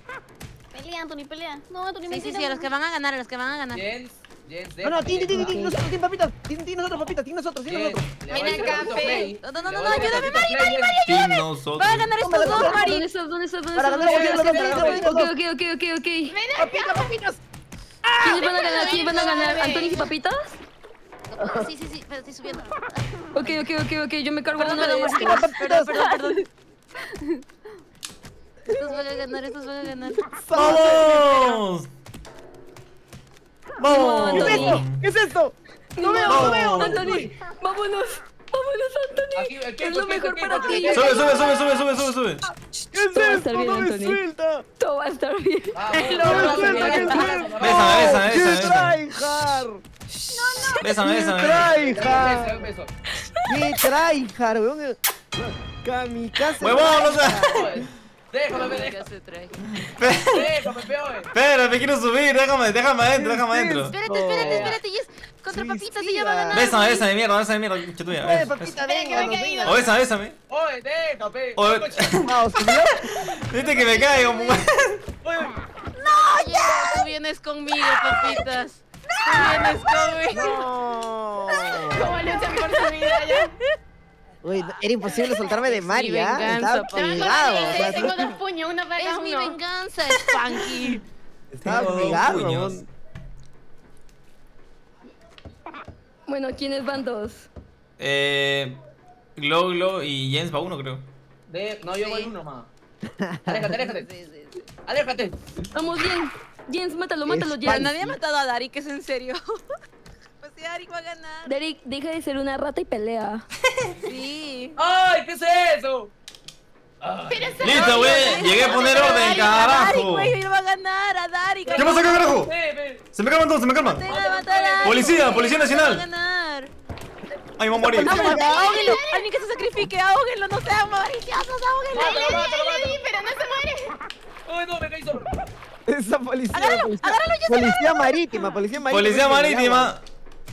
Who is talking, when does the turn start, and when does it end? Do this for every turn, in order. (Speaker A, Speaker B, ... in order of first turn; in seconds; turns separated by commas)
Speaker A: 0.7-2.7, Speaker B: 2.1-3.9, Speaker C: 3.7-5.7, Speaker D: 4.8-8.8, Speaker E: 5.4-5.7, Speaker C: 7.7-11.0, Speaker F: 8.3-9.3, Speaker B: 8.4-13.0, Speaker G: 11.0-12.1, Speaker D: 12.2-12.8, Speaker E: 12.4-16.3, Speaker D: 13.8-15.3, Speaker C: 14.0-15.0, Speaker F: 16.3-17.1, Speaker D: 16.6-17.4, Speaker D: 18.0-18.5, Speaker E: 18.2-20.6, Speaker F: 18.3-20.1, Speaker B: 18.8-20.0, Speaker B: 21.3-23.7, Speaker E: 23.3-25.4, Speaker B: 24.6-26.5, Speaker D: 24.9-25.9, Speaker A: 25.9-26.4, Speaker B: 28.7-30.2, Speaker D: 30.3-31.3, Speaker G: 30.5-31.9, Speaker G: 33.8-35.0, Speaker E: 33.9-34.8, Speaker D: 34.3-37.3, Speaker E: 35.9-41.8, Speaker G: 36.2-37.3, Speaker C: 39.3-41.5, Speaker G: 40.8-42.4, Speaker D: 42.9-44.6, Speaker E: 43.1-44.2, Speaker E: 44.8-47.5, Speaker C: 45.7-48.4, Speaker B: 45.9-46.5, Speaker D: 46.3-49.8, Speaker F: 46.3-46.6, Speaker G: 47.6-49.0, Speaker G: 50.1-51.7, Speaker A: 50.3-51.6, Speaker D: 51.1-52.6, Speaker C: 51.7-52.9, Speaker D: 53.5-55.0, Speaker D: 55.8-57.7, Speaker G: 56.6-57.8, Speaker C: 57.0-59.0, Speaker B: 58.5-59.6, Speaker G: 59.8-60.5, Speaker C: 60.2-61.3, Speaker G: 61.3-64.0, Speaker D: 63.2-64.8, Speaker B: 63.9-67.1, Speaker C: 64.3-64.8, Speaker D: 65.5-66.7, Speaker G: 66.5-68.7, Speaker D: 68.1-69.8, Speaker F: 68.7-69.9, Speaker G: 69.6-70.3, Speaker C: 70.5-72.2, Speaker G: 71.5-72.3, Speaker D: 72.2-73.1, Speaker G: 73.1-75.0, Speaker A: 73.7-74.2, Speaker B: 73.8-74.5, Speaker C: 75.2-75.5, Speaker B: 76.0-80.5, Speaker A: 76.0-77.1, Speaker A: 77.7-78.5, Speaker A: 79.0-80.6, Speaker D: 80.3-82.0, Speaker F: 81.9-83.5, Speaker D: 84.4-88.1, Speaker B: 85.1-88.2, Speaker F: 86.9-89.5, Speaker B: 89.0-91.0, Speaker D: 91.5-92.8, Speaker G: 91.6-92.8, Speaker E: 96.3-97.5, Speaker G: 98.0-98.8, Speaker G: 99.3-101.0, Speaker C: 101.5-102.7, Speaker B: 101.9-102.3, Speaker D: 103.1-103.7, Speaker C: 103.5-104.1, Speaker B: 103.8-104.7, Speaker C: 104.7-105.4, Speaker E: 105.7-107.9, Speaker D: 107.2-108.2, Speaker B: 107.6-109.6, Speaker B: 110.4-111.5, Speaker E: 111.5-113.4, Speaker B: 114.0-114.8, Speaker C: 114.8-116.1, Speaker C: 117.0-117.9, Speaker F: 117.2-119.8, Speaker G: 117.6-120.3, Speaker B: 117.7-122.3, Speaker C: 121.7-123.0, Speaker G: 121.7-122.5, Speaker G: 123.1-124.1, Speaker B: 123.8-126.7, Speaker C: 124.0-125.4, Speaker G: 124.8-126.0, Speaker G: 127.6-128.4, Speaker B: 128.0-132.4, Speaker D: 128.0-128.9, Speaker F: 128.0-129.2, Speaker C: 131.9-133.0, Speaker F: 131.9-133.9, Speaker C: 134.5-135.4, Speaker D: 135.9-139.9, Speaker B: 136.5-138.2, Speaker G: 138.9-140.0